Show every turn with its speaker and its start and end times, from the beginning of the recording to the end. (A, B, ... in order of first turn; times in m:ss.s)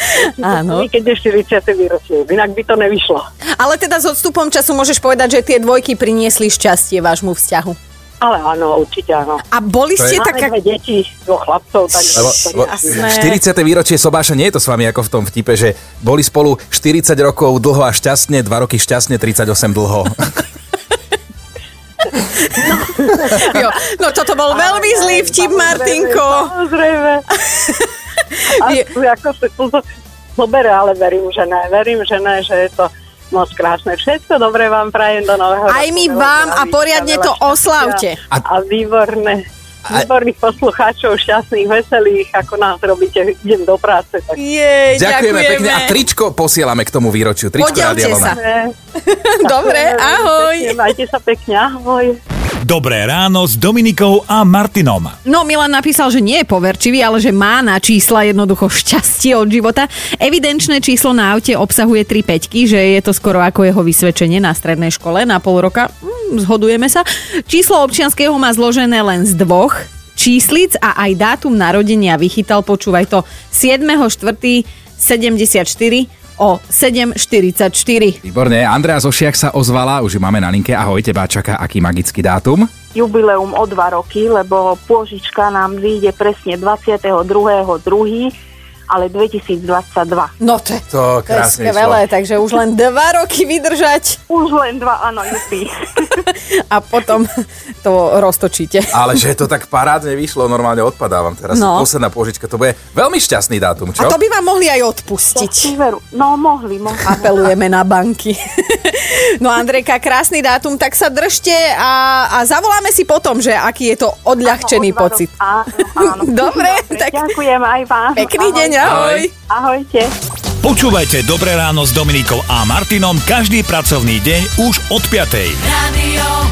0:00.1-0:03.3 A
0:00.4-0:00.9 B
0:03.6-0:07.8 B
0:08.2-0:09.4 A
0:09.5-0:10.5 B
0:10.0-0:10.2 C
0:10.2-0:13.1 A
0:12.1-0:20.4 C
0:12.8-0:13.4 B
0:22.6-0:23.8 A
0:23.0-0:26.5 B
0:24.5-0:27.2 A
0:27.4-0:27.9 B
0:28.5-0:29.8 A
0:30.4-0:44.4 A
0:35.7-0:38.2 B
0:44.4-0:46.0 B
0:44.9-0:48.4 C
0:47.6-0:48.4 B
0:47.7-0:48.7 A
0:49.0-0:50.8 B
0:49.4-0:52.2 A
0:52.6-0:55.2 D
0:55.2-1:18.2 B
1:18.2-1:22.7 C
1:22.9-1:28.4 E
1:28.9-1:30.3 E
1:30.4-1:34.2 B
1:30.9-1:32.0 C
1:34.3-1:36.2 E
1:36.3-1:39.0 B
1:38.9-1:44.2 C
1:41.5-1:41.9 B
1:44.0-1:45.8 B
1:45.4-1:47.4 E
1:47.0-1:57.4 B
1:54.4-2:00.2 E
1:58.2-1:59.3 B
1:58.8-1:59.3 C
2:00.6-2:05.7 D
2:05.8-2:06.4 E